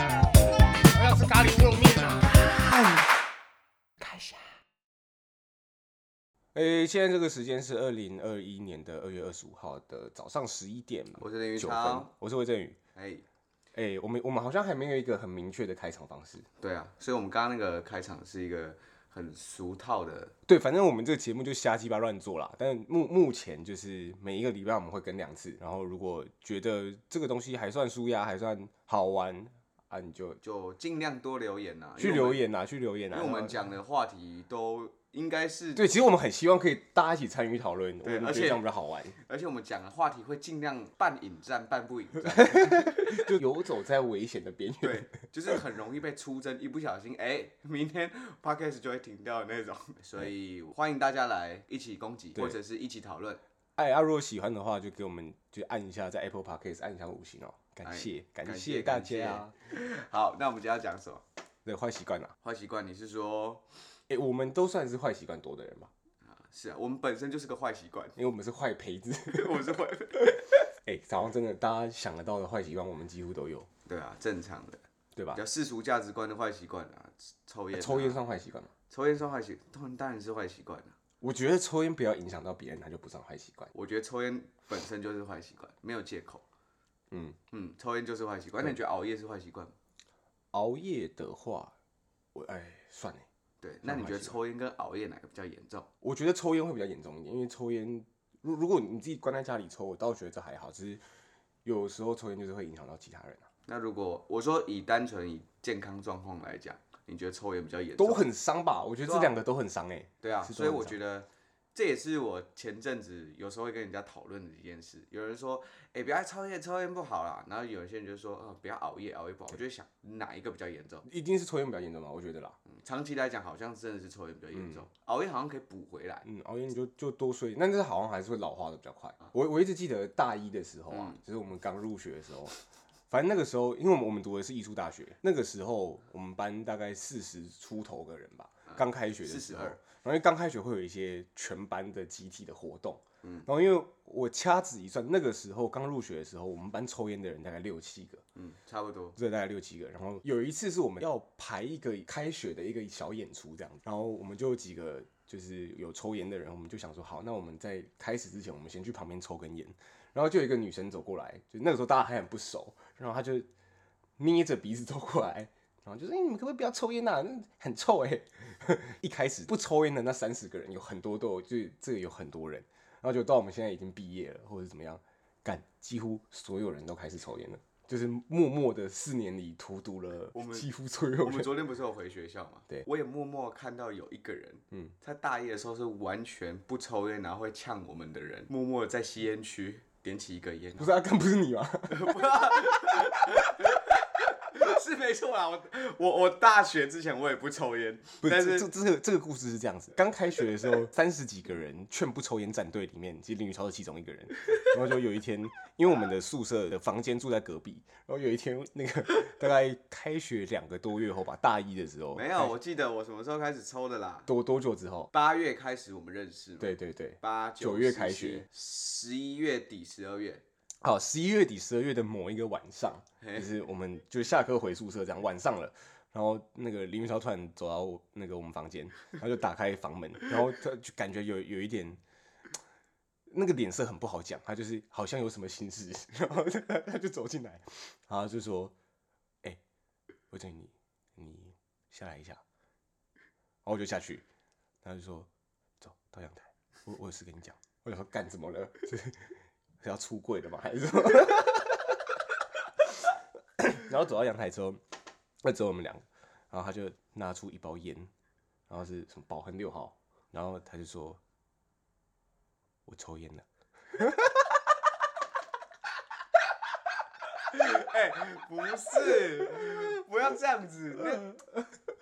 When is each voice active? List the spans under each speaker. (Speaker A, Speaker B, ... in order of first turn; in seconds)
Speaker A: 0.8-3.1, 4.0-4.3, 6.5-12.8, 13.8-16.4, 20.5-30.4, 32.0-33.6, 35.8-39.2, 42.3-45.5, 53.8-59.5, 61.6-62.3, 64.1-65.9, 68.2-69.8, 70.3-73.7, 75.1-75.4, 77.7-78.7, 81.2-83.7, 87.1-87.4, 90.5-91.7, 92.3-93.3, 93.8-94.4, 96.0-101.0, 101.6-103.5, 108.0-111.0, 121.1-122.6, 124.5-124.9, 126.2-132.5, 133.1-148.2, 149.2-163.5, 164.2-181.5, 190.8-193.2, 198.2-212.5, 214.3-215.1, 216.6-218.4, 220.8-232.0, 233.3-238.7, 240.3-242.4, 243.6-244.2, 244.8-245.3, 245.8-252.2, 253.6-254.8, 255.4-258.1, 258.7-261.2, 262.9-264.4
Speaker B: 11.2-12.1, 12.9-13.2, 16.6-20.3, 30.4-32.5, 33.1-35.9, 38.0-43.4, 44.8-53.4, 57.8-61.2, 62.4-63.6, 66.3-68.2, 69.3-70.7, 73.9-74.8, 75.3-78.2, 78.9-81.0, 83.7-86.4, 87.5-89.7, 93.6-95.9, 103.7-108.3, 109.0-109.3, 110.2-121.1, 122.7-126.3, 130.9-131.2, 138.7-139.8, 143.2-143.5, 148.3-149.2, 180.3-180.7, 181.2-190.9, 191.9-198.7, 212.1-214.3, 215.1-220.4, 223.2-223.5, 267.5-271.3